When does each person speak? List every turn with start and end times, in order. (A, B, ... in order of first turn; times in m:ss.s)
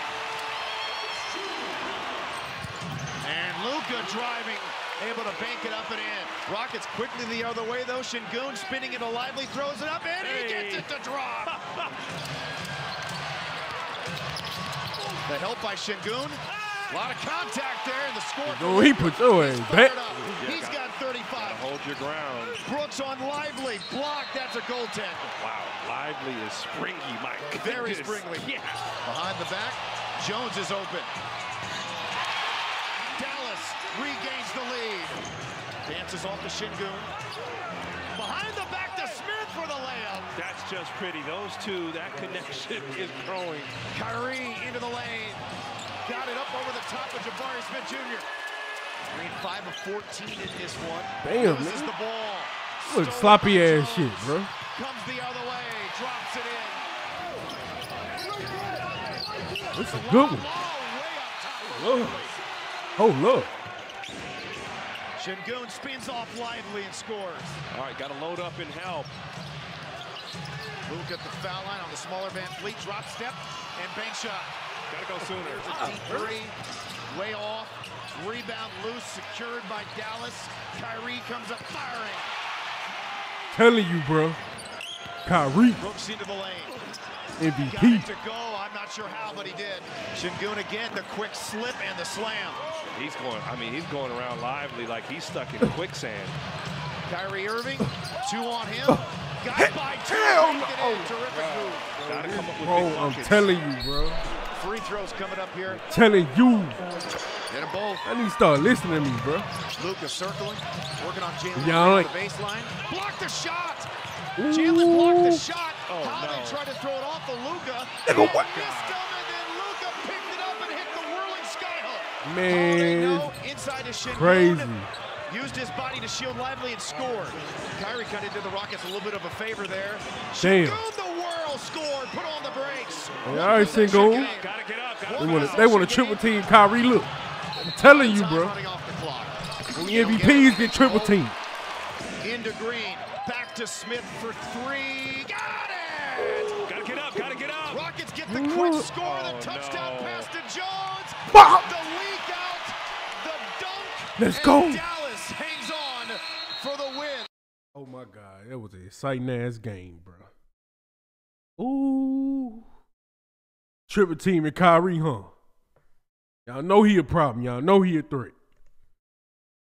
0:03.2-0:11.6 A
0:10.2-0:10.9 B
0:11.5-0:11.9 B
0:15.3-0:21.6 A
0:18.4-0:20.4 C
0:20.4-0:22.6 B
0:22.6-0:25.3 A
0:25.4-0:28.9 B
0:27.6-0:28.5 A
0:29.0-0:31.1 A
0:33.2-0:35.2 A
0:35.9-0:37.1 A
0:38.1-0:40.3 A
0:40.3-0:43.8 B
0:43.8-0:45.4 A
0:46.0-0:48.3 A
0:49.1-0:56.9 A
0:51.2-0:51.9 C
0:52.9-0:54.5 C
0:59.4-1:02.4 A
0:59.7-1:00.5 C
1:01.7-1:02.3 C
1:03.0-1:03.5 C
1:05.2-1:07.6 A
1:07.7-1:09.1 B
1:10.9-1:14.5 A
1:14.9-1:16.0 B
1:15.2-1:16.6 A
1:15.9-1:16.1 C
1:17.1-1:22.3 A
1:23.5-1:24.4 C
1:25.2-1:25.8 C
1:25.8-1:26.8 A
1:27.4-1:28.1 C
1:27.6-1:32.6 A
1:32.9-1:36.4 B
1:37.1-1:42.0 A
1:39.6-1:41.4 C
1:42.0-1:44.2 C
1:42.0-1:43.4 B
1:43.1-1:43.5 A
1:44.5-1:45.8 A
1:45.7-1:46.8 C
1:47.5-1:48.1 A
1:48.0-1:49.5 C
1:49.8-1:53.9 A
1:51.6-1:52.1 C
1:54.4-1:55.4 C
1:54.5-2:04.7 A
1:55.9-1:56.6 B
1:58.0-1:58.5 C
1:58.3-1:59.0 B
2:02.2-2:03.4 C
2:04.1-2:04.9 C
2:05.3-2:16.3 A
2:10.4-2:10.8 C
2:13.2-2:14.3 C
2:13.8-2:15.7 B
2:15.2-2:18.6 C
2:17.8-2:21.2 A
2:19.7-2:21.4 C
2:22.2-2:26.6 A
2:26.6-2:27.9 B
2:27.7-2:37.3 A
2:28.3-2:28.9 C
2:29.0-2:30.3 B
2:31.3-2:31.7 C
2:34.2-2:34.8 C
2:37.8-2:40.3 C
2:41.6-2:42.7 C
2:43.9-2:45.3 C
2:46.5-2:48.4 C